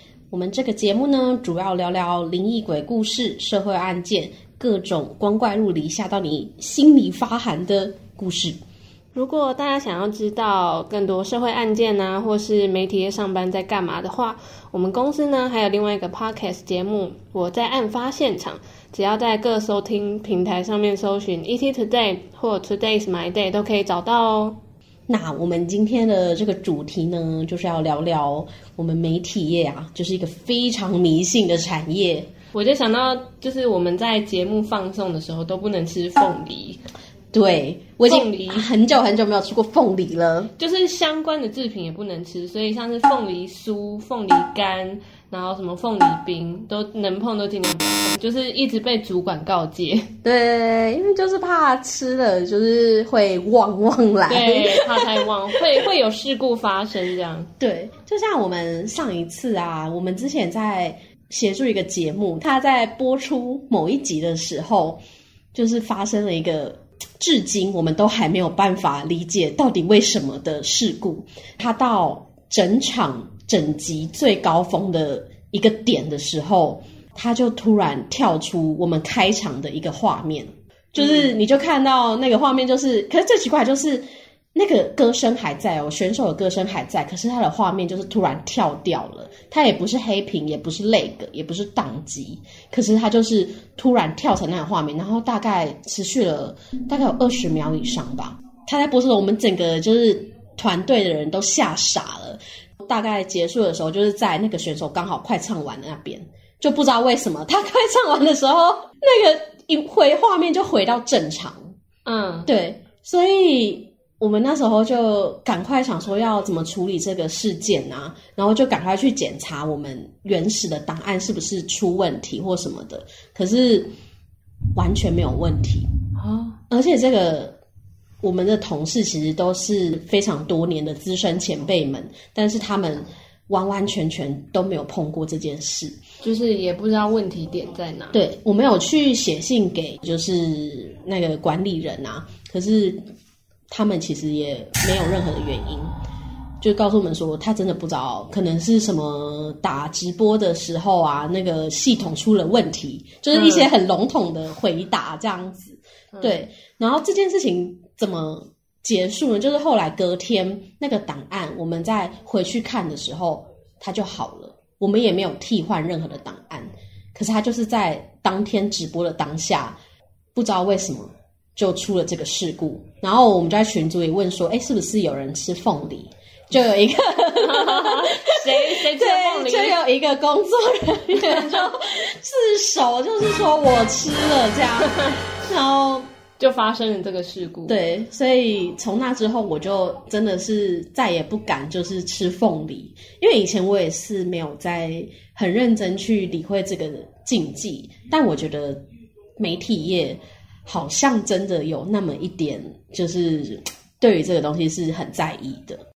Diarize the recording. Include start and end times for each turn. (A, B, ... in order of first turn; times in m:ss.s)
0:00.3-0:08.6 A
0:09.1-0:24.6 B
0:25.1-0:32.3 A
0:32.5-0:36.8 B
0:37.3-0:40.5 A
0:38.0-0:38.7 B
0:40.6-0:50.1 B
0:50.2-0:55.0 A
0:54.3-0:57.5 B
0:57.6-1:05.0 A
1:05.5-1:24.0 A
1:21.0-1:21.3 B
1:24.5-1:51.7 A
1:52.0-1:52.5 B
1:52.5-2:03.9 A
2:04.7-2:05.9 A
2:06.2-2:06.6 B
2:06.7-2:07.6 A
2:08.2-2:16.0 A
2:16.2-2:18.2 B
2:18.1-2:23.0 A
2:23.7-2:25.9 A
2:26.6-2:49.8 A
2:33.3-2:33.7 B
2:36.1-2:36.4 B
2:50.3-2:58.2 A
2:57.4-2:59.8 B
2:58.8-3:06.1 A
3:01.2-3:01.6 B
3:06.4-3:07.8 B
3:07.7-3:18.8 A
3:19.4-3:25.8 A